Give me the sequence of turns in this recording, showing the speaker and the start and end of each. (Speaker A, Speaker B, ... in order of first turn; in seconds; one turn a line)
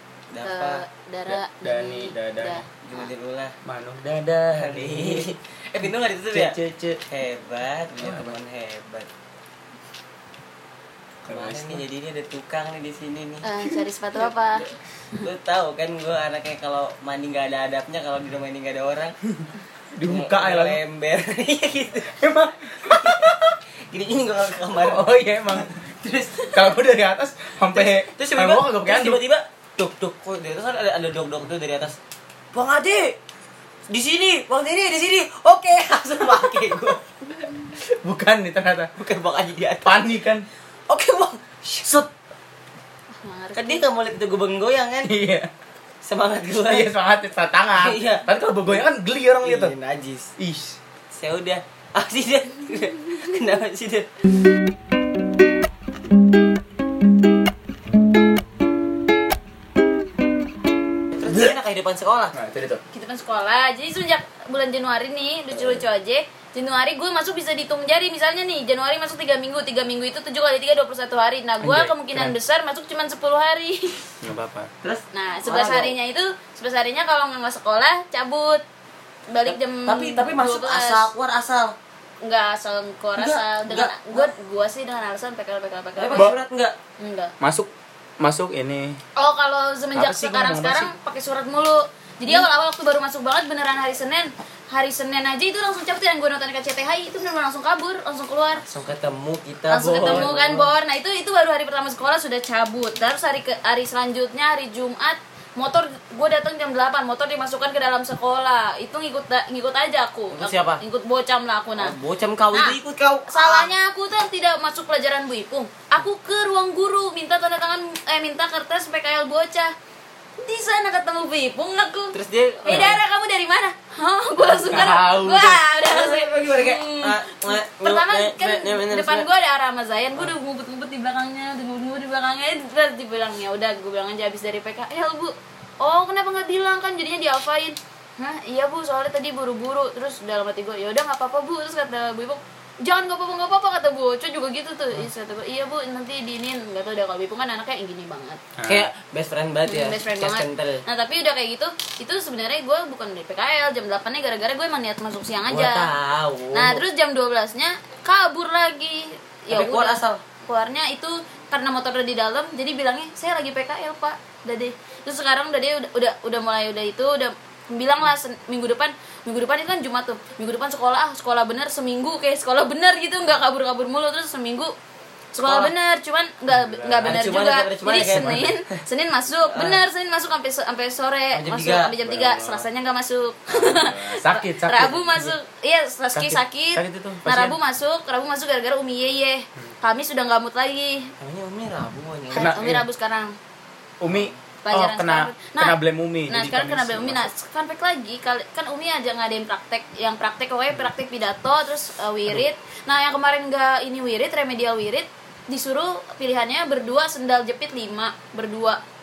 Speaker A: 0.3-0.8
Speaker B: 0.4-3.1
Speaker C: 1.3-2.6
Speaker A: 2.8-3.5
Speaker C: 3.6-5.3
Speaker A: 4.5-9.1
Speaker C: 6.3-7.0
Speaker C: 8.0-8.4
Speaker A: 11.2-13.5
Speaker C: 11.3-11.8
Speaker B: 13.4-14.7
Speaker A: 15.2-19.2
Speaker C: 19.9-20.8
Speaker A: 20.0-26.7
Speaker C: 22.0-23.4
Speaker C: 24.7-25.7
Speaker C: 26.5-29.2
Speaker A: 27.7-31.9
Speaker A: 32.5-33.2
Speaker A: 33.9-37.0
Speaker C: 37.8-38.9
Speaker A: 39.0-40.1
Speaker C: 39.8-40.5
Speaker A: 40.9-42.1
Speaker B: 43.1-43.9
Speaker A: 43.5-45.1
Speaker C: 45.0-45.5
Speaker A: 46.0-46.9
Speaker C: 46.6-49.7
Speaker A: 47.8-48.3
Speaker A: 49.4-50.3
Speaker C: 50.4-50.8
Speaker A: 51.1-54.1
Speaker A: 61.2-62.4
Speaker C: 62.3-62.8
Speaker B: 62.9-74.0
Speaker C: 71.6-72.3
Speaker C: 74.2-74.7
Speaker A: 74.8-75.9
Speaker B: 75.1-78.6
Speaker B: 79.3-81.1
Speaker A: 79.4-81.8
Speaker B: 82.2-86.3
Speaker A: 83.2-84.3
Speaker A: 86.0-86.7
Speaker B: 87.0-87.3
Speaker C: 87.4-87.7
Speaker C: 88.2-89.0
Speaker B: 89.2-98.6
Speaker C: 89.9-90.9
Speaker A: 98.6-100.6
Speaker B: 99.7-112.0
Speaker C: 99.7-100.7
Speaker A: 110.3-110.8
Speaker A: 111.8-113.7
Speaker B: 112.5-119.7
Speaker B: 120.4-148.4
Speaker A: 122.1-123.0
Speaker C: 122.7-123.0
Speaker C: 124.6-125.6
Speaker A: 124.7-125.0
Speaker A: 125.8-129.3
Speaker C: 148.6-148.9
Speaker A: 148.7-150.8
Speaker B: 149.6-155.9
Speaker A: 155.4-156.8
Speaker B: 156.5-174.7
Speaker A: 159.5-160.2
Speaker B: 175.3-191.1
Speaker A: 175.4-175.7
Speaker C: 176.5-177.3
Speaker A: 177.0-178.6
Speaker C: 177.9-178.5
Speaker A: 179.5-179.8
Speaker A: 181.3-181.9
Speaker C: 182.0-182.6
Speaker C: 183.5-185.3
Speaker C: 186.1-187.6
Speaker A: 191.2-192.6
Speaker C: 192.3-192.8
Speaker B: 192.3-193.3
Speaker C: 194.0-197.3
Speaker B: 194.6-195.8
Speaker B: 196.3-208.8